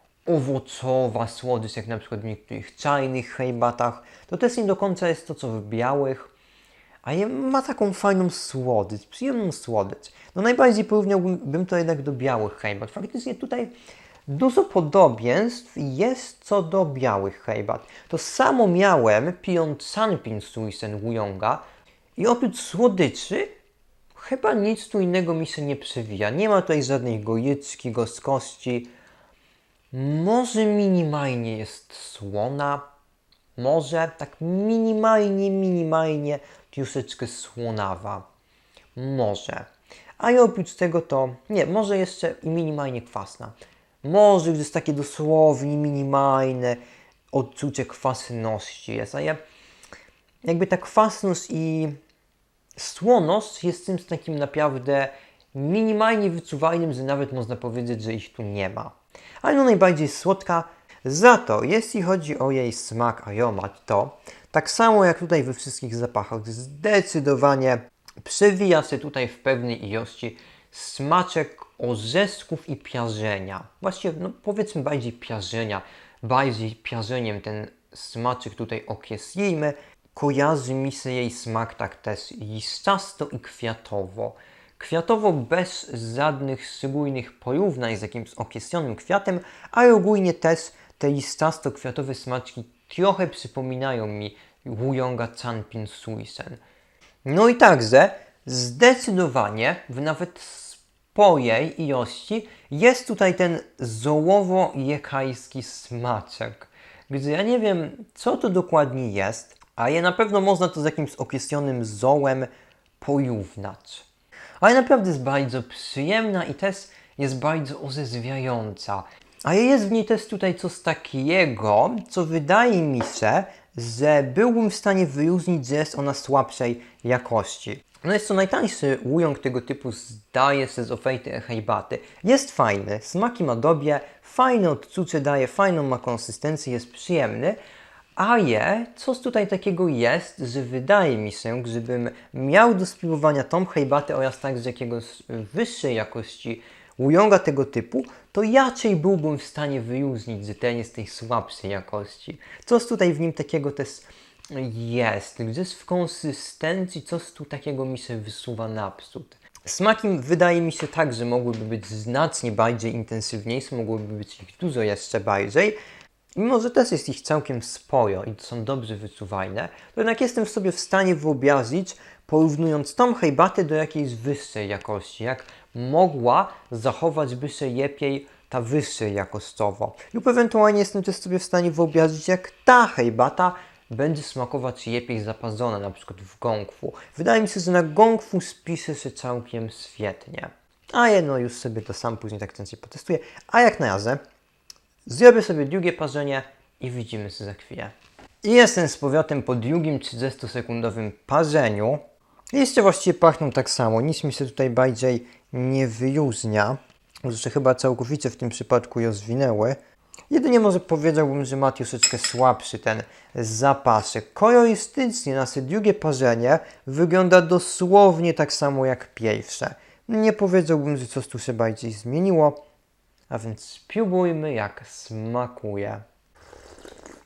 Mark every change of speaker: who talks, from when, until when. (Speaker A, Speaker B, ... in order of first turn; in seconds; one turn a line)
Speaker A: 0.2-6.3
Speaker A: 7.0-13.8
Speaker A: 14.3-21.6
Speaker A: 22.1-23.5
Speaker A: 24.1-28.9
Speaker A: 29.9-32.9
Speaker A: 33.6-38.3
Speaker A: 39.0-39.7
Speaker A: 40.2-46.8
Speaker A: 47.3-49.4
Speaker A: 50.5-52.0
Speaker A: 52.8-96.6
Speaker A: 97.2-114.1
Speaker A: 114.6-137.6
Speaker A: 138.2-165.8
Speaker A: 166.3-194.2
Speaker A: 195.1-209.8
Speaker A: 210.3-222.6
Speaker A: 223.3-226.0